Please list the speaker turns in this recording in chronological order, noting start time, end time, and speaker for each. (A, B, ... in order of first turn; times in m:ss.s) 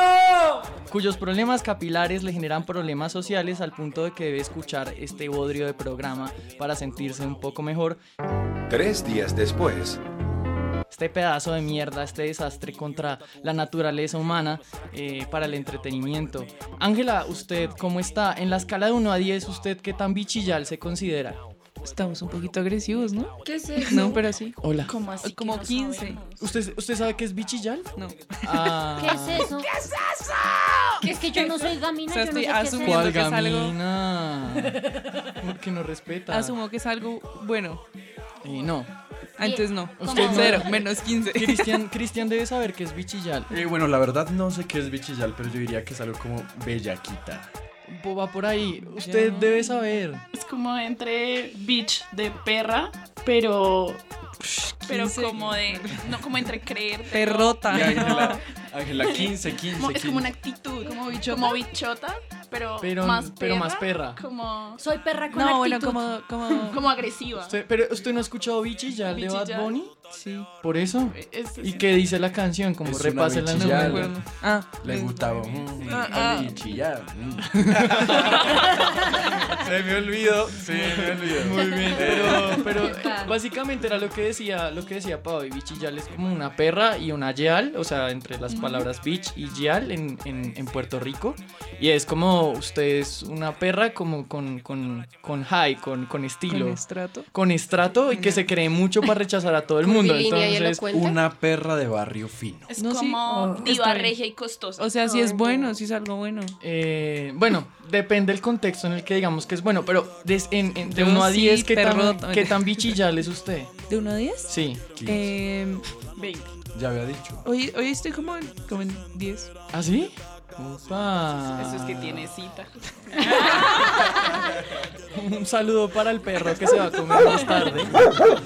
0:00.9-0:08.0 A
0:10.9-0:21.4 A
0:21.8-0:23.3 B
0:23.4-0:24.2 C
0:23.9-0:24.6 B
0:24.6-0:24.9 A
0:24.9-0:26.4 D
0:25.2-0:26.2 B
0:26.4-0:27.9 A
0:28.0-0:28.8 B
0:28.4-0:29.5 A
0:29.0-0:29.7 E
0:31.0-0:33.2 E
0:31.3-0:33.8 B
0:32.8-0:36.6 A
0:36.3-0:37.8 B
0:38.4-0:38.9 A
0:39.4-0:41.8 B
0:39.4-0:40.7 E
0:40.0-0:40.7 A
0:41.3-0:43.6 A
0:43.5-0:47.5 F
0:47.9-0:50.2 A
0:49.0-0:49.8 B
0:50.3-0:54.0 D
0:54.5-0:55.5 A
0:54.9-0:58.4 D
0:57.1-0:58.4 B
0:57.7-1:00.3 F
0:59.0-1:04.8 D
1:00.8-1:01.6 B
1:02.8-1:04.2 A
1:04.8-1:06.7 E
1:05.3-1:06.8 B
1:06.7-1:07.6 D
1:07.4-1:09.9 A
1:09.1-1:09.7 D
1:10.1-1:10.5 B
1:10.6-1:14.1 A
1:11.1-1:12.0 D
1:12.8-1:14.2 F
1:13.6-1:16.6 B
1:14.8-1:18.5 F
1:15.9-1:16.4 D
1:17.6-1:18.4 A
1:19.5-1:22.6 F
1:20.6-1:36.8 A
1:22.7-1:23.3 E
1:28.5-1:28.9 B
1:36.5-1:37.3 B
1:37.3-1:40.8 A
1:38.1-1:38.5 B
1:39.8-1:41.2 C
1:40.9-1:42.7 F
1:42.7-1:44.9 D
1:42.8-1:44.2 B
1:44.8-1:46.6 B
1:45.0-1:45.8 C
1:46.6-1:53.7 A
1:50.8-1:53.0 B
1:53.9-1:54.5 B
1:54.5-1:54.8 A
1:55.0-1:55.3 F
1:55.1-1:55.8 B
1:56.2-1:56.5 D
1:56.7-1:57.4 F
1:57.4-1:59.5 B
1:59.7-2:02.2 A
2:01.5-2:04.3 D
2:05.1-2:08.0 A